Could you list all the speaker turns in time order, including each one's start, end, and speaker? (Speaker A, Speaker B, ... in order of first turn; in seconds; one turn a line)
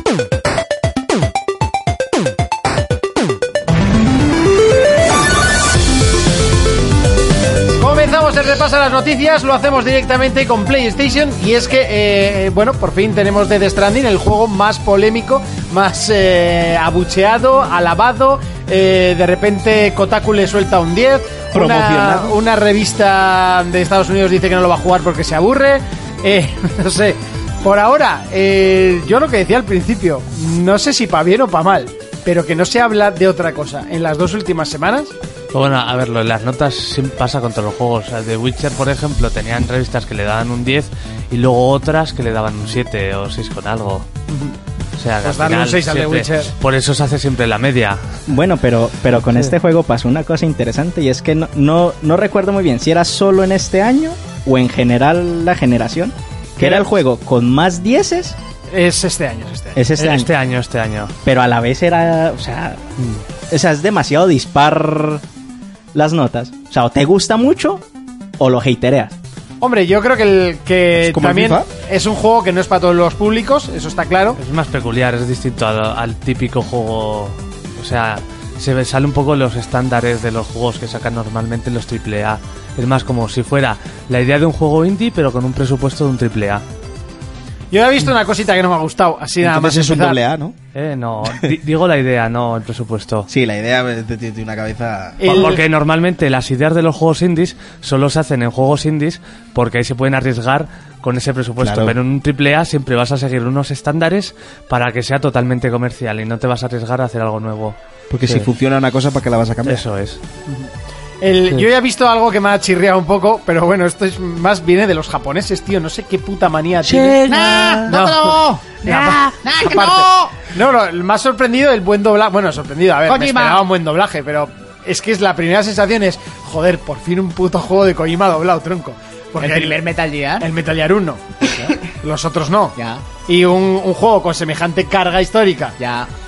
Speaker A: 7.8-35.1
Speaker B: 21.5-22.3
Speaker C: 35.5-44.1
Speaker A: 44.3-44.5
Speaker C: 45.0-48.0
Speaker A: 45.2-46.5
Speaker D: 48.3-58.4
Speaker A: 58.7-59.8
Speaker D: 59.7-60.3
Speaker C: 60.0-61.1
Speaker D: 61.2-62.8
Speaker C: 63.0-63.2
Speaker D: 63.5-65.2
Speaker D: 65.9-67.8
Speaker D: 68.4-69.1
Speaker A: 69.6-74.4
Speaker B: 71.0-71.7
Speaker C: 74.3-86.6
Speaker A: 87.7-90.2
Speaker B: 89.4-90.5
Speaker C: 90.7-93.3
Speaker B: 93.3-95.5
Speaker A: 95.2-95.6
Speaker C: 95.2-108.5
Speaker B: 101.6-102.0
Speaker B: 108.1-109.8
Speaker C: 109.7-110.2
Speaker A: 111.2-117.2
Speaker B: 116.8-118.0
Speaker E: 117.2-120.5
Speaker A: 117.9-129.8
Speaker E: 123.0-123.6
Speaker E: 129.4-130.5
Speaker A: 130.4-132.7
Speaker E: 131.4-131.8
Speaker E: 132.8-133.0
Speaker A: 133.2-135.8
Speaker E: 135.8-136.1